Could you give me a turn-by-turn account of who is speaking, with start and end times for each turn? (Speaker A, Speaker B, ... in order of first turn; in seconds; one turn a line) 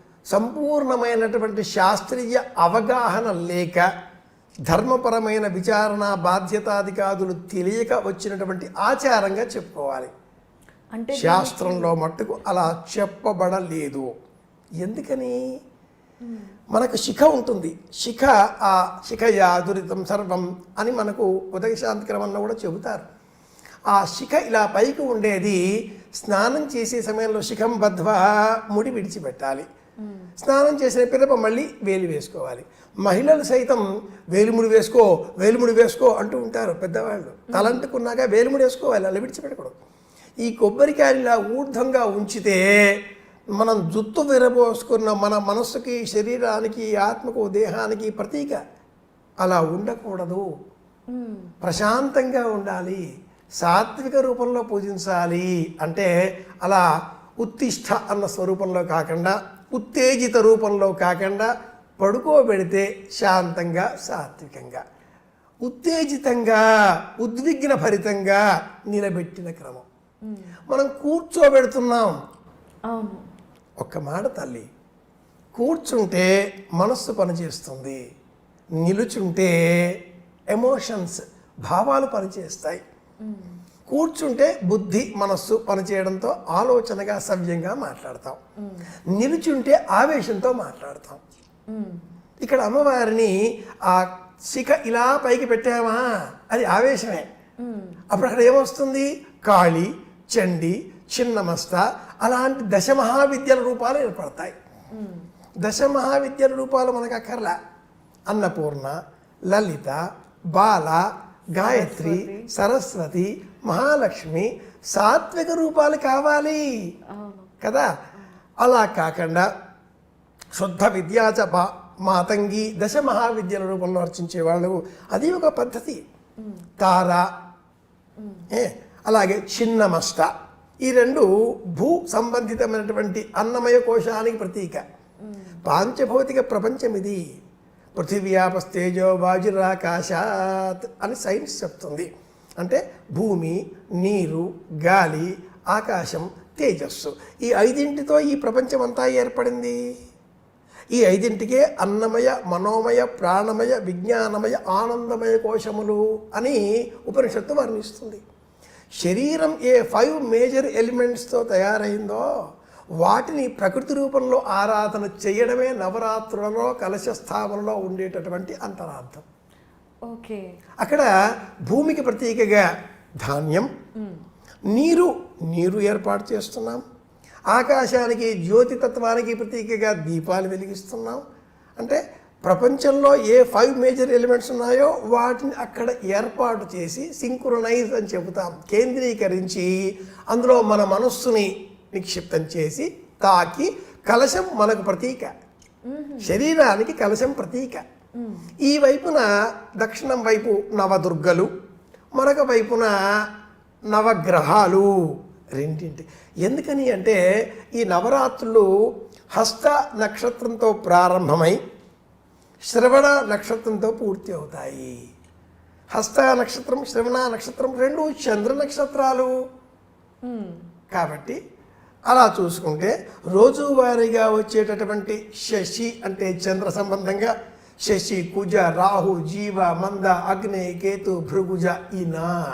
Speaker A: 0.3-3.9
Speaker A: 4.7-10.1
Speaker B: 10.9-11.9
Speaker A: 11.1-14.1
Speaker A: 14.8-15.3
Speaker B: 16.2-16.5
Speaker A: 16.7-23.1
Speaker A: 23.9-25.6
Speaker A: 26.2-29.7
Speaker B: 30.0-30.3
Speaker A: 30.4-39.8
Speaker B: 37.5-37.8
Speaker A: 40.4-42.6
Speaker A: 43.6-48.6
Speaker A: 49.4-50.5
Speaker B: 51.1-51.5
Speaker A: 51.6-53.0
Speaker A: 53.6-56.1
Speaker A: 57.4-64.8
Speaker A: 65.6-66.6
Speaker A: 67.2-69.9
Speaker B: 70.3-70.6
Speaker A: 70.7-72.1
Speaker B: 72.9-73.2
Speaker A: 73.8-74.7
Speaker A: 75.5-78.0
Speaker A: 78.8-80.0
Speaker A: 80.5-82.8
Speaker B: 83.2-83.6
Speaker A: 83.9-88.4
Speaker B: 88.6-88.9
Speaker A: 89.2-91.2
Speaker B: 91.7-92.0
Speaker A: 92.4-93.3
Speaker A: 93.9-97.3
Speaker B: 97.6-98.0
Speaker A: 98.1-104.6
Speaker B: 104.9-105.3
Speaker A: 105.6-107.6
Speaker A: 108.3-109.0
Speaker A: 109.5-110.0
Speaker A: 110.5-116.6
Speaker B: 111.6-112.5
Speaker B: 117.1-117.5
Speaker A: 117.6-117.9
Speaker A: 118.6-119.5
Speaker A: 120.6-126.0
Speaker B: 126.4-126.7
Speaker A: 126.8-127.3
Speaker B: 128.2-128.5
Speaker A: 128.5-130.3
Speaker A: 130.8-134.8
Speaker B: 135.2-135.6
Speaker A: 135.7-137.2
Speaker A: 137.9-149.8
Speaker A: 150.9-158.2
Speaker A: 159.0-162.2
Speaker A: 163.0-169.2
Speaker B: 170.1-170.4
Speaker A: 170.8-171.1
Speaker A: 171.7-172.7
Speaker A: 173.2-173.7
Speaker A: 174.7-176.8
Speaker A: 177.5-181.2
Speaker A: 181.8-189.7
Speaker A: 190.3-195.3
Speaker B: 195.9-196.4
Speaker A: 196.2-197.8
Speaker B: 198.2-198.5
Speaker A: 198.7-199.3
Speaker A: 199.8-201.5
Speaker A: 202.2-202.9
Speaker A: 203.9-204.9
Speaker A: 205.6-208.7
Speaker A: 209.3-211.6
Speaker A: 212.7-214.9
Speaker A: 215.9-219.3
Speaker B: 220.2-220.6
Speaker A: 220.9-221.4
Speaker A: 222.1-232.4